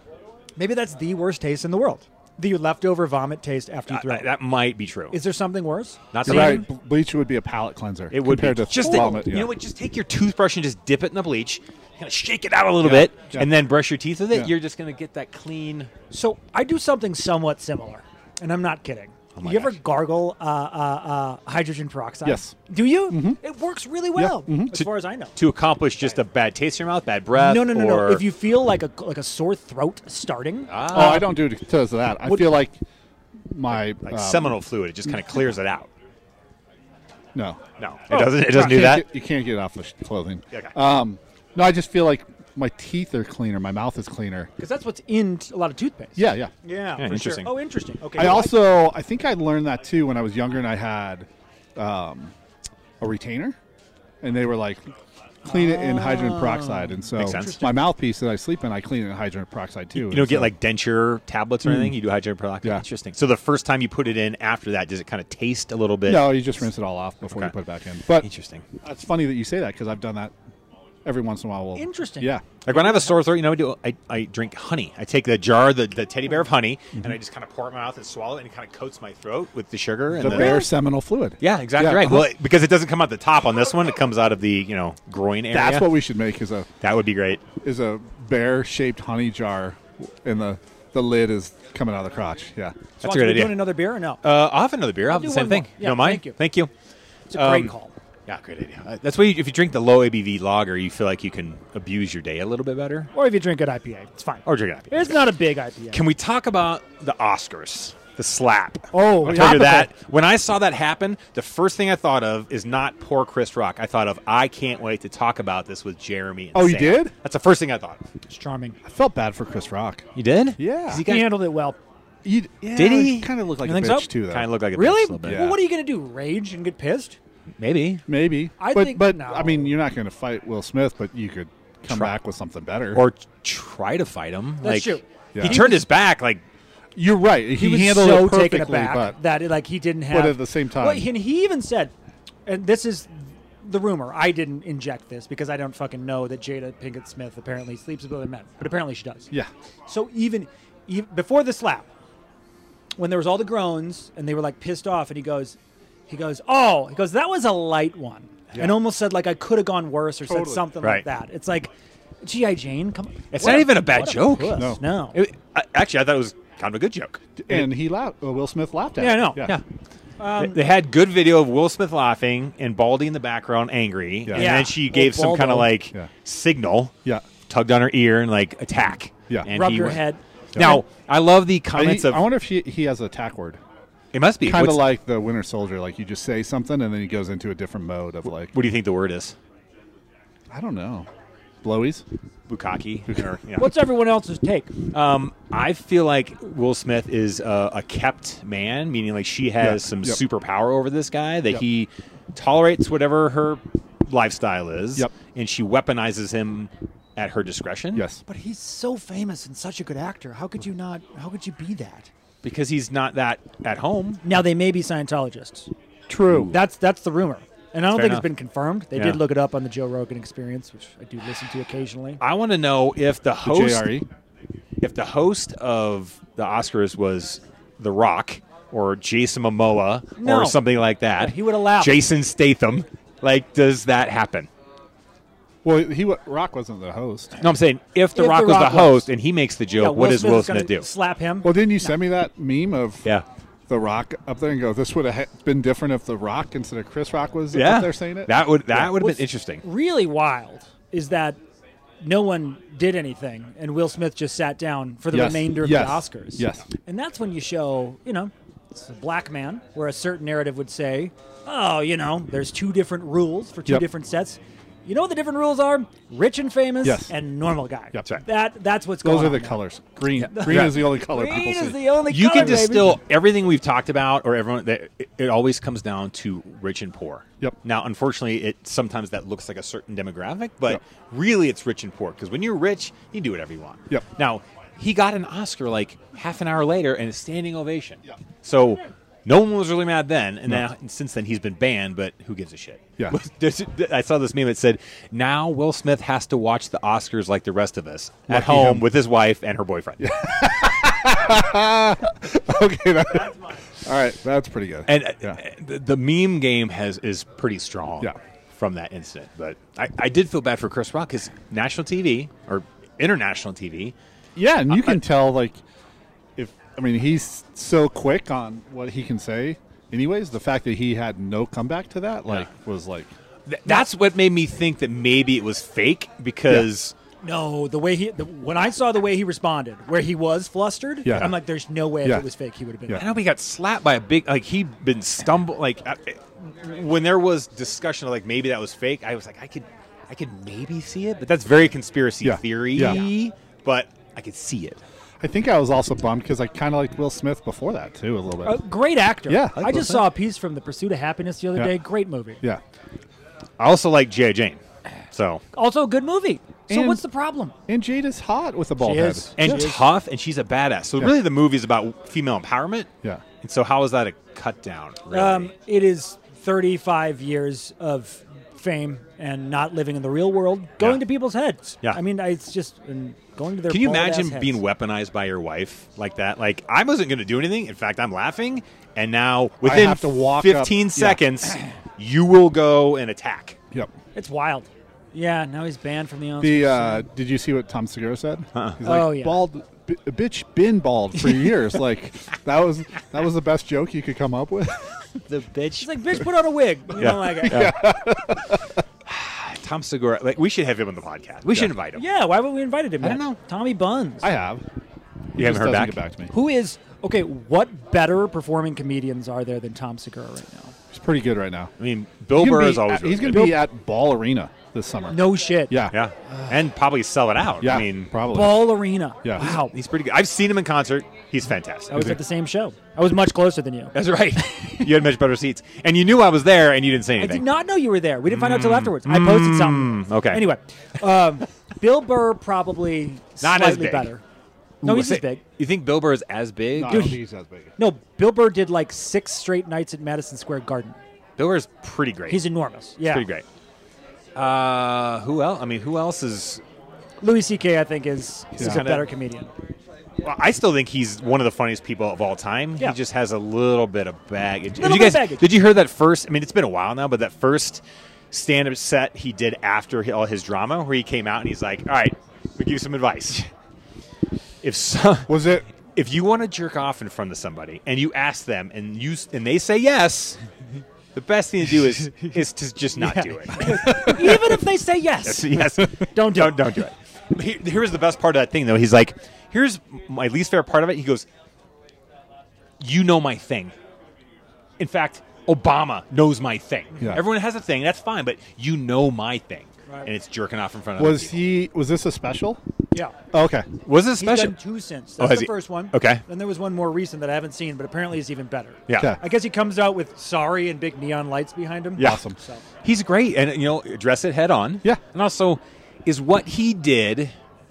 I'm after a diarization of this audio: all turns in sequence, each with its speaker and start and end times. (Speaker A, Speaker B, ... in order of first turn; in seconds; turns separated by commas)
Speaker A: 0.6-4.3, Speaker B: 3.9-5.2, Speaker A: 5.1-6.7, Speaker B: 6.1-6.7, Speaker C: 6.2-9.5, Speaker B: 8.1-15.9, Speaker A: 8.7-9.3, Speaker C: 12.8-13.5, Speaker A: 16.1-25.4, Speaker B: 19.4-19.8, Speaker C: 22.2-22.6, Speaker C: 23.1-23.4, Speaker C: 24.1-24.7, Speaker B: 24.7-28.3, Speaker A: 27.3-31.4, Speaker B: 30.7-31.3, Speaker C: 30.9-32.8, Speaker A: 32.3-32.5, Speaker C: 33.5-34.6, Speaker B: 34.0-35.9, Speaker C: 37.4-37.6, Speaker B: 37.8-39.1, Speaker A: 38.1-38.6, Speaker C: 38.1-44.5, Speaker A: 44.6-48.5, Speaker C: 46.2-46.5, Speaker B: 47.0-47.5, Speaker C: 48.2-52.3, Speaker C: 53.0-53.6, Speaker C: 54.2-54.8, Speaker C: 55.4-60.5, Speaker A: 55.5-57.7, Speaker B: 57.1-57.7, Speaker B: 60.0-66.6, Speaker C: 61.6-62.0, Speaker C: 66.1-68.3, Speaker B: 67.3-67.5, Speaker B: 68.1-68.7, Speaker C: 68.8-70.3, Speaker C: 71.0-72.4, Speaker A: 71.8-73.2, Speaker B: 72.7-80.7, Speaker C: 80.1-82.3, Speaker A: 80.2-80.7, Speaker B: 81.4-86.0, Speaker C: 85.5-86.7, Speaker B: 86.8-87.4, Speaker C: 87.6-92.8, Speaker A: 93.0-94.2, Speaker B: 93.0-96.7, Speaker A: 95.1-96.4, Speaker A: 97.3-97.9, Speaker B: 97.3-97.7, Speaker B: 98.3-103.1, Speaker A: 103.1-106.0, Speaker B: 104.5-105.2, Speaker B: 105.9-118.0, Speaker A: 108.9-109.9, Speaker C: 109.2-109.9, Speaker C: 116.5-117.1, Speaker A: 118.3-118.8, Speaker C: 118.8-120.1, Speaker B: 120.2-121.5, Speaker C: 120.6-121.0, Speaker A: 121.0-121.8, Speaker C: 122.2-124.5, Speaker B: 122.8-123.3, Speaker A: 123.6-124.1, Speaker B: 124.2-125.5, Speaker A: 124.7-127.2, Speaker C: 125.2-125.6, Speaker B: 127.6-128.0, Speaker C: 128.1-133.0, Speaker A: 128.6-129.7, Speaker B: 132.9-136.4, Speaker A: 134.6-135.9, Speaker C: 135.3-135.7, Speaker C: 137.0-139.2, Speaker A: 137.6-141.9, Speaker C: 140.1-141.1, Speaker A: 142.5-149.3, Speaker A: 149.9-151.9, Speaker A: 153.0-155.6, Speaker A: 156.1-161.7, Speaker C: 160.3-160.7, Speaker A: 162.2-165.2, Speaker B: 163.3-167.7, Speaker C: 164.6-164.8, Speaker C: 167.4-169.6, Speaker A: 169.0-169.5, Speaker A: 170.2-170.7, Speaker B: 170.4-176.9, Speaker C: 174.3-174.6, Speaker A: 174.3-175.7, Speaker B: 177.5-180.0, Speaker A: 179.5-180.8, Speaker C: 180.6-180.8, Speaker B: 180.6-182.2, Speaker C: 181.7-183.6, Speaker B: 184.1-184.9, Speaker C: 184.4-188.5, Speaker B: 188.5-189.4, Speaker C: 190.5-191.1, Speaker C: 191.6-192.0, Speaker B: 192.5-193.7, Speaker A: 193.6-194.7, Speaker B: 194.9-208.1, Speaker C: 199.6-200.2, Speaker C: 207.9-208.2, Speaker A: 208.3-212.1, Speaker B: 212.4-214.2, Speaker A: 214.2-215.7, Speaker C: 216.1-216.6, Speaker A: 216.3-222.2, Speaker B: 217.9-218.3, Speaker B: 218.9-219.2, Speaker B: 222.2-223.9, Speaker C: 223.4-224.1, Speaker B: 224.8-234.5, Speaker A: 230.2-230.6, Speaker A: 231.2-232.0, Speaker C: 235.6-237.4, Speaker B: 237.4-240.9, Speaker A: 238.2-239.1, Speaker A: 239.8-241.9, Speaker C: 241.4-243.1, Speaker C: 243.7-248.9, Speaker B: 247.5-249.6, Speaker A: 248.9-251.4, Speaker A: 252.0-269.6, Speaker C: 255.1-256.6, Speaker C: 266.8-267.1, Speaker C: 269.0-271.8, Speaker A: 270.2-273.0, Speaker B: 270.4-270.8, Speaker B: 272.1-300.1, Speaker C: 298.3-298.9, Speaker C: 300.0-305.4, Speaker B: 304.9-313.9, Speaker C: 314.4-315.6, Speaker C: 316.4-323.1, Speaker B: 323.5-326.9, Speaker A: 327.2-333.1, Speaker C: 331.1-331.4, Speaker B: 332.9-344.8, Speaker C: 342.2-343.1, Speaker C: 345.2-348.6, Speaker A: 348.4-352.4, Speaker C: 349.3-350.0, Speaker B: 349.6-349.9, Speaker B: 353.6-354.6, Speaker B: 355.1-355.4, Speaker A: 355.5-357.5, Speaker C: 356.7-357.0, Speaker C: 357.7-359.6, Speaker A: 358.8-359.9, Speaker B: 359.4-362.9, Speaker B: 363.4-365.5, Speaker A: 365.1-374.6, Speaker B: 373.7-383.6, Speaker C: 379.6-381.2, Speaker A: 384.1-387.1, Speaker C: 386.4-395.0, Speaker B: 388.6-388.8, Speaker A: 388.8-389.4, Speaker B: 395.3-396.2, Speaker A: 395.8-397.7, Speaker B: 397.0-397.9, Speaker C: 397.0-398.7, Speaker B: 399.1-402.0, Speaker C: 401.5-401.7, Speaker A: 402.0-404.3, Speaker B: 403.0-403.4, Speaker C: 404.2-404.6, Speaker C: 405.4-406.3, Speaker B: 405.4-406.0, Speaker A: 406.3-410.7, Speaker C: 410.9-411.7, Speaker B: 411.8-413.6, Speaker C: 412.3-416.0, Speaker A: 415.1-415.8, Speaker B: 415.9-418.1, Speaker C: 417.6-419.5, Speaker A: 418.3-419.8, Speaker B: 419.4-421.9, Speaker A: 421.9-424.0, Speaker C: 421.9-422.2, Speaker B: 423.9-427.5, Speaker A: 427.2-434.2, Speaker B: 428.3-430.4, Speaker B: 433.4-434.1, Speaker B: 434.8-437.2, Speaker A: 434.8-435.4, Speaker C: 436.8-437.7, Speaker A: 436.9-437.2, Speaker A: 437.8-441.0, Speaker B: 441.4-442.4, Speaker A: 442.3-443.3, Speaker B: 443.1-443.4, Speaker B: 444.4-446.6, Speaker A: 447.2-449.5, Speaker C: 448.6-448.8, Speaker B: 448.6-449.1, Speaker B: 450.2-463.5, Speaker A: 454.8-455.5, Speaker B: 464.6-470.4, Speaker C: 465.3-465.7, Speaker B: 471.1-474.5, Speaker A: 473.0-476.8, Speaker C: 473.7-474.2, Speaker B: 475.2-481.3, Speaker B: 482.8-483.7, Speaker B: 484.8-491.4, Speaker C: 491.0-492.6, Speaker C: 493.3-493.7, Speaker B: 493.9-494.6, Speaker A: 494.2-502.6, Speaker B: 495.2-496.2, Speaker B: 498.9-499.1, Speaker B: 502.0-502.2, Speaker C: 502.0-502.4, Speaker B: 502.8-507.3